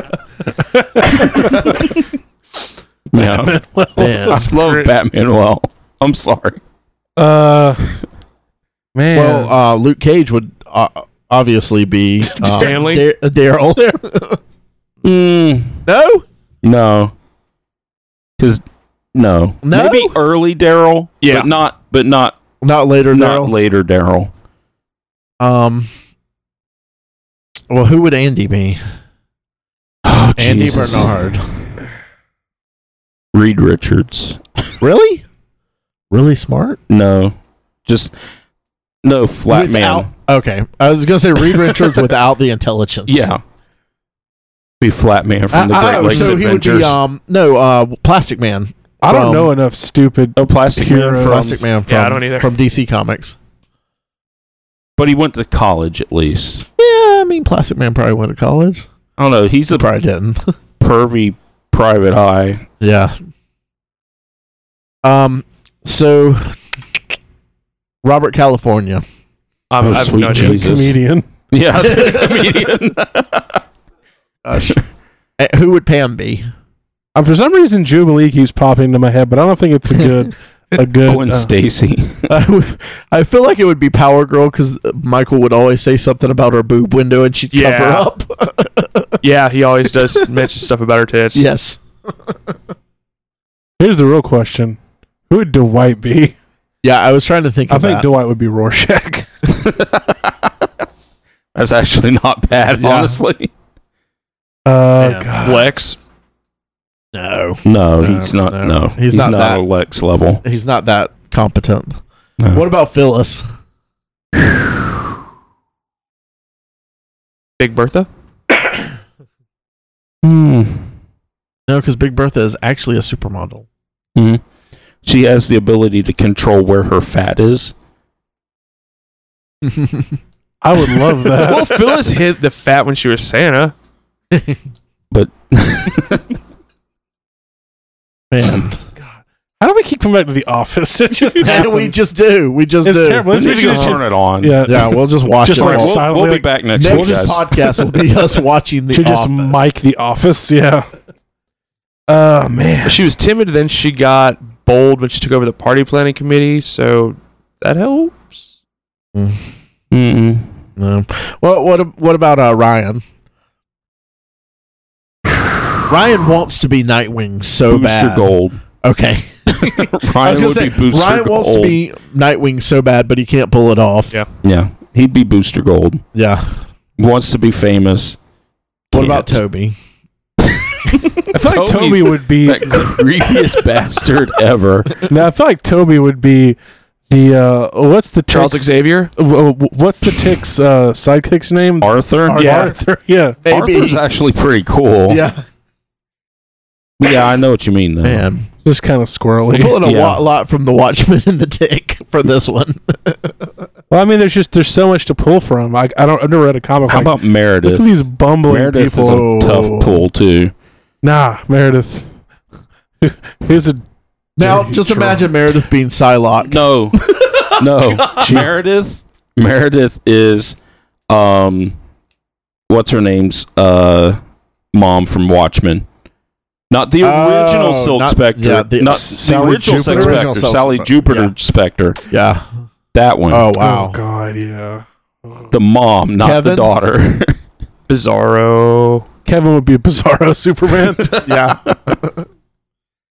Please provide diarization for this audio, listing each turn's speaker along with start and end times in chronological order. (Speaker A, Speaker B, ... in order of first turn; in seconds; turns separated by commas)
Speaker A: 0.7-1.9, Speaker B: 3.1-3.5, Speaker A: 3.1-4.9, Speaker C: 4.0-4.5, Speaker B: 4.3-6.6, Speaker A: 7.2-7.8, Speaker A: 8.9-9.5, Speaker C: 9.1-14.4, Speaker D: 12.3-13.0, Speaker B: 15.0-15.8, Speaker C: 15.8-16.2, Speaker B: 16.6-17.1, Speaker B: 19.1-22.4, Speaker C: 19.6-20.2, Speaker D: 21.2-21.5, Speaker C: 22.6-23.5, Speaker B: 23.1-24.3, Speaker C: 25.4-25.9, Speaker C: 27.7-28.8, Speaker B: 30.0-31.1, Speaker C: 30.4-31.5, Speaker B: 33.3-34.7, Speaker C: 34.8-35.2, Speaker C: 36.1-36.8, Speaker B: 36.9-37.3, Speaker B: 37.9-38.1, Speaker B: 39.0-40.1, Speaker C: 39.5-43.3, Speaker B: 43.1-43.4, Speaker B: 44.8-47.0, Speaker A: 45.5-46.3, Speaker C: 45.8-49.5, Speaker A: 49.0-51.6, Speaker B: 50.4-51.6, Speaker C: 51.3-53.4, Speaker D: 51.9-52.5, Speaker B: 55.0-56.6, Speaker C: 56.8-58.8, Speaker B: 59.2-59.9, Speaker C: 59.7-60.5, Speaker B: 60.8-62.6, Speaker C: 62.8-63.1, Speaker C: 65.0-66.5, Speaker C: 68.0-69.0, Speaker D: 69.7-70.7, Speaker B: 69.8-71.0, Speaker A: 70.3-71.3, Speaker B: 71.5-73.6, Speaker C: 71.8-72.5, Speaker C: 74.4-74.8, Speaker C: 75.4-76.5, Speaker A: 77.1-81.5, Speaker B: 81.0-82.3, Speaker C: 82.3-89.1, Speaker D: 87.5-88.1, Speaker D: 89.2-91.5, Speaker C: 91.3-91.8, Speaker A: 93.8-96.3, Speaker C: 96.8-98.0, Speaker A: 97.7-99.3, Speaker B: 99.5-100.7, Speaker B: 101.5-103.5, Speaker C: 102.7-103.2, Speaker A: 104.7-105.7, Speaker C: 105.0-105.3, Speaker D: 105.4-106.0, Speaker C: 107.1-109.6, Speaker B: 107.7-110.4, Speaker C: 110.4-112.0, Speaker B: 112.4-112.6, Speaker C: 112.5-113.4, Speaker D: 117.6-118.1, Speaker B: 120.2-120.9, Speaker C: 121.7-123.7, Speaker B: 124.2-124.4, Speaker B: 125.0-127.7, Speaker C: 129.6-130.1, Speaker A: 130.6-132.0, Speaker D: 131.3-133.7, Speaker C: 134.3-134.6, Speaker B: 135.1-136.3, Speaker C: 138.3-138.8, Speaker A: 139.0-141.9, Speaker C: 141.4-143.4, Speaker A: 142.8-148.2, Speaker B: 143.3-144.7, Speaker C: 144.7-146.0, Speaker B: 145.5-147.4, Speaker C: 146.8-149.5, Speaker A: 148.9-150.9, Speaker A: 152.1-153.1, Speaker D: 152.8-158.5, Speaker C: 159.1-159.4, Speaker B: 159.9-160.5, Speaker C: 160.8-163.0, Speaker C: 165.9-168.3, Speaker B: 167.7-168.6, Speaker C: 168.8-174.1, Speaker B: 169.6-171.8, Speaker B: 174.4-176.0, Speaker C: 176.1-176.5, Speaker B: 177.0-178.2, Speaker C: 178.9-179.8, Speaker B: 178.9-179.4, Speaker B: 180.5-185.0, Speaker A: 181.3-183.0, Speaker A: 185.1-186.6, Speaker A: 187.1-193.4, Speaker D: 188.3-189.1, Speaker B: 191.8-192.7, Speaker D: 192.3-192.7, Speaker C: 193.4-194.0, Speaker B: 193.5-195.2, Speaker C: 195.1-195.4, Speaker B: 197.0-198.3, Speaker C: 198.0-198.5, Speaker A: 198.6-199.8, Speaker C: 199.5-203.5, Speaker B: 199.8-200.2, Speaker A: 203.9-209.3, Speaker B: 206.9-207.9, Speaker B: 208.5-210.5, Speaker C: 209.0-210.0, Speaker A: 211.0-212.2, Speaker A: 213.0-213.8, Speaker A: 214.4-215.3, Speaker C: 214.4-218.2, Speaker B: 216.4-217.0, Speaker B: 217.6-220.6, Speaker A: 218.2-218.5, Speaker B: 221.1-221.7, Speaker B: 222.7-224.2, Speaker B: 224.7-225.8, Speaker B: 226.7-232.0, Speaker C: 227.0-231.3, Speaker A: 228.9-230.2, Speaker C: 232.1-232.4, Speaker B: 232.9-233.5, Speaker C: 233.3-234.0, Speaker A: 233.6-235.5, Speaker B: 235.5-237.4, Speaker C: 236.2-236.7, Speaker D: 237.9-239.0, Speaker A: 239.2-241.2, Speaker B: 241.1-241.5, Speaker C: 241.2-242.2